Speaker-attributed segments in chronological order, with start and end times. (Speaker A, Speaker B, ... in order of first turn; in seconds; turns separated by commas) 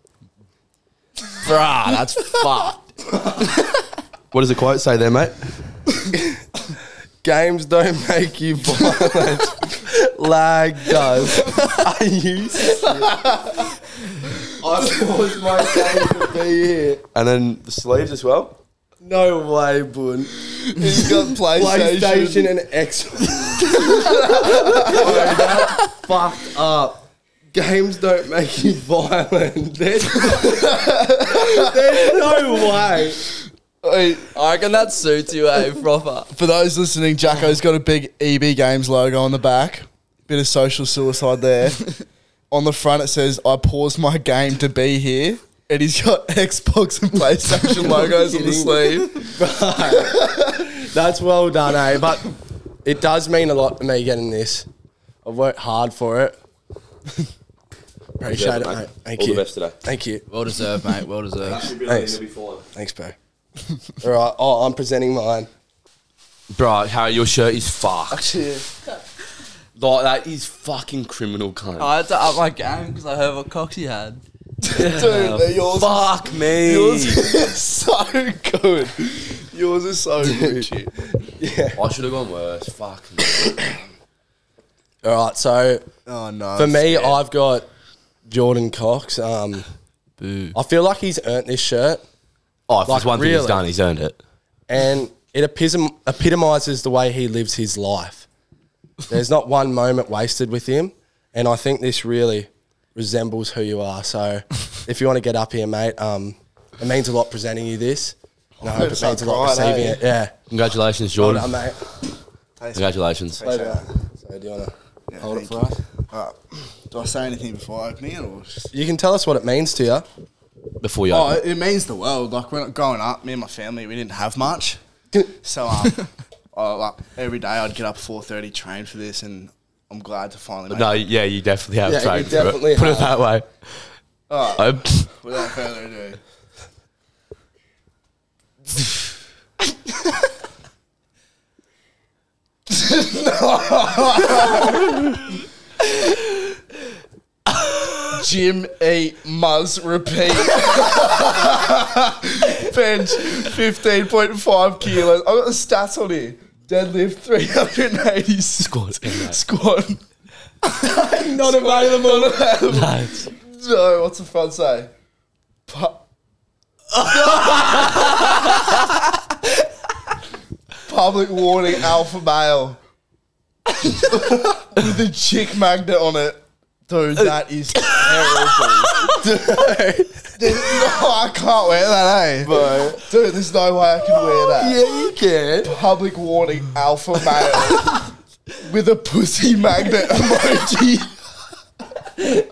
Speaker A: 1.4-2.8, Speaker B: 4.3-5.4, Speaker C: 7.2-13.1, Speaker C: 14.6-17.0, Speaker B: 17.1-18.6, Speaker C: 19.0-20.7, Speaker D: 20.7-22.5, Speaker C: 21.5-33.2, Speaker D: 24.9-25.6, Speaker D: 30.3-31.5, Speaker D: 33.8-34.3, Speaker A: 34.3-36.3, Speaker D: 36.3-49.3, Speaker C: 47.9-54.7, Speaker C: 55.2-56.4, Speaker C: 58.2-60.2, Speaker B: 58.2-59.7, Speaker A: 60.3-61.7, Speaker B: 61.4-62.6, Speaker C: 61.8-62.2, Speaker C: 62.7-63.1, Speaker C: 64.0-65.5, Speaker B: 66.5-68.2, Speaker D: 68.1-68.7, Speaker B: 69.8-71.9, Speaker A: 71.8-74.2, Speaker D: 74.6-80.9, Speaker B: 74.7-77.2, Speaker C: 81.4-81.8, Speaker B: 81.7-83.7, Speaker C: 85.0-85.8, Speaker D: 86.1-87.2, Speaker C: 86.5-87.7, Speaker C: 88.3-89.6, Speaker A: 90.2-90.5, Speaker C: 90.5-92.0, Speaker B: 92.7-94.2, Speaker C: 92.8-93.6, Speaker C: 94.7-98.2, Speaker C: 99.1-110.3, Speaker D: 108.6-110.0, Speaker B: 110.5-111.5, Speaker C: 111.2-111.8, Speaker D: 112.6-113.8, Speaker B: 112.7-113.4, Speaker C: 113.4-115.8, Speaker D: 115.1-118.7, Speaker C: 118.7-120.0, Speaker B: 120.8-121.4, Speaker D: 121.1-124.8, Speaker D: 125.4-131.0, Speaker B: 130.7-133.8, Speaker C: 131.8-133.2, Speaker D: 134.3-136.2, Speaker B: 134.5-135.1, Speaker D: 142.7-144.9, Speaker D: 148.1-160.0, Speaker B: 158.6-159.4, Speaker D: 160.6-164.9, Speaker C: 161.0-162.4, Speaker B: 162.7-163.3, Speaker D: 165.7-166.0, Speaker D: 167.3-167.6, Speaker D: 170.8-172.8, Speaker D: 174.0-179.2, Speaker B: 178.9-179.2, Speaker C: 179.1-180.3, Speaker D: 180.4-184.8, Speaker C: 182.4-183.1, Speaker C: 184.4-185.7, Speaker D: 185.6-188.1, Speaker D: 188.6-191.2